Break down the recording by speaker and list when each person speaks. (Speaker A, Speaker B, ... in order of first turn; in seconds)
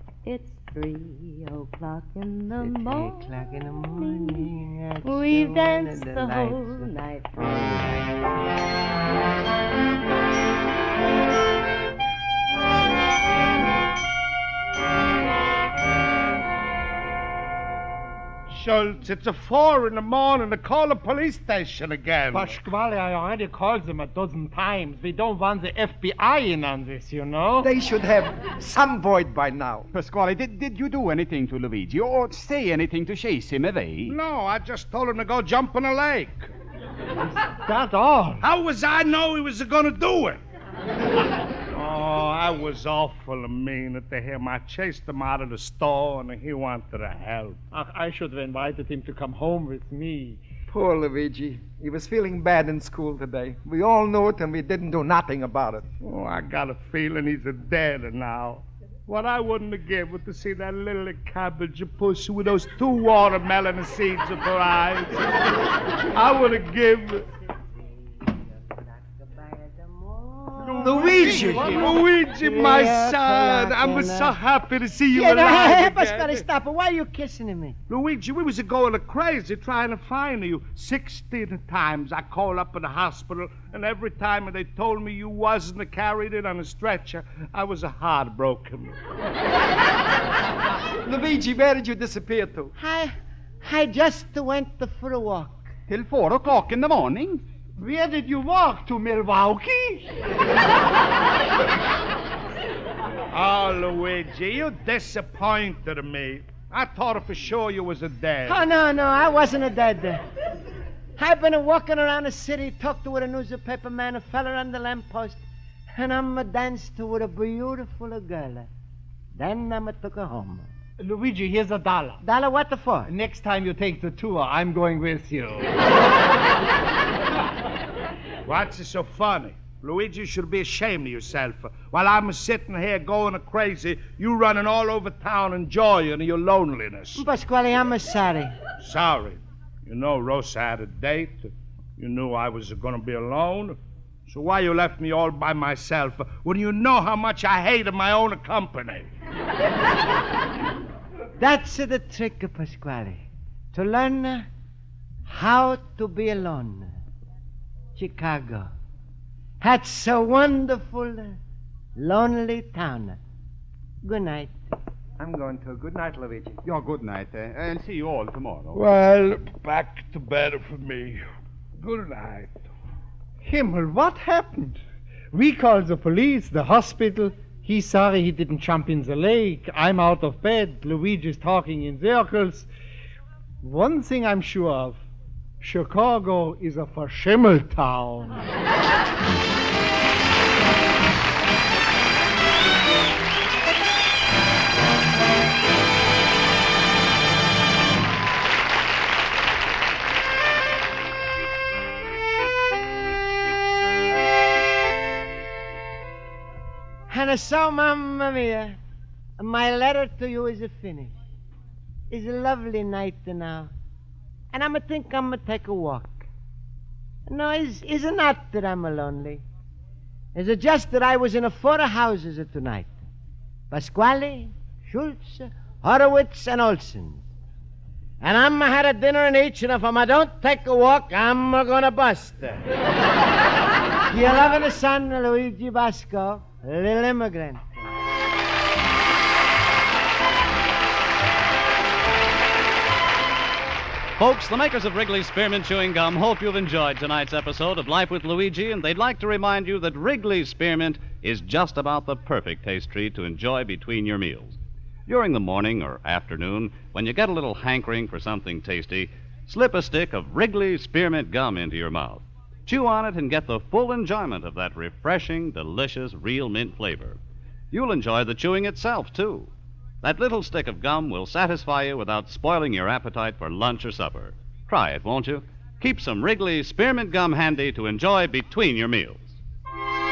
Speaker A: 0.2-3.3, 3.9-4.5, 5.0-7.5
Speaker B: 2.6-8.1, 68.3-74.3, 75.1-77.8, 92.8-95.7, 108.5-110.2, 111.2-118.7, 119.3-120.7, 122.2-123.1, 137.1-138.6, 151.4-154.5, 155.2-157.0, 157.9-158.7, 159.6-161.4, 162.0-163.2, 164.0-164.6, 207.1-208.8, 209.4-211.2, 212.1-213.7, 214.5-216.3, 217.3-219.4, 220.3-223.1, 223.7-227.2, 228.2-232.6, 234.1-237.9
Speaker C: 18.5-22.6, 34.0-36.5, 38.4-40.4, 41.7-47.6, 56.0-65.4, 66.1-67.2, 70.6-76.5, 77.9-88.9, 103.3-108.6, 128.4-137.2, 138.8-143.8, 144.3-149.1, 168.7-171.2, 171.8-172.7
Speaker D: 22.3-27.7, 37.4-38.5, 47.7-50.4, 97.8-100.1, 121.0-122.2, 123.1-125.8, 173.4-174.8, 175.3-182.7, 183.6-185.0, 185.6-188.4
Speaker E: 27.6-29.9, 50.7-55.9, 70.8-71.8, 91.0-92.7, 165.2-166.6
Speaker F: 29.9-34.2, 95.9-97.4, 166.6-168.8
Speaker G: 244.2-267.2, 267.7-269.5, 270.0-279.4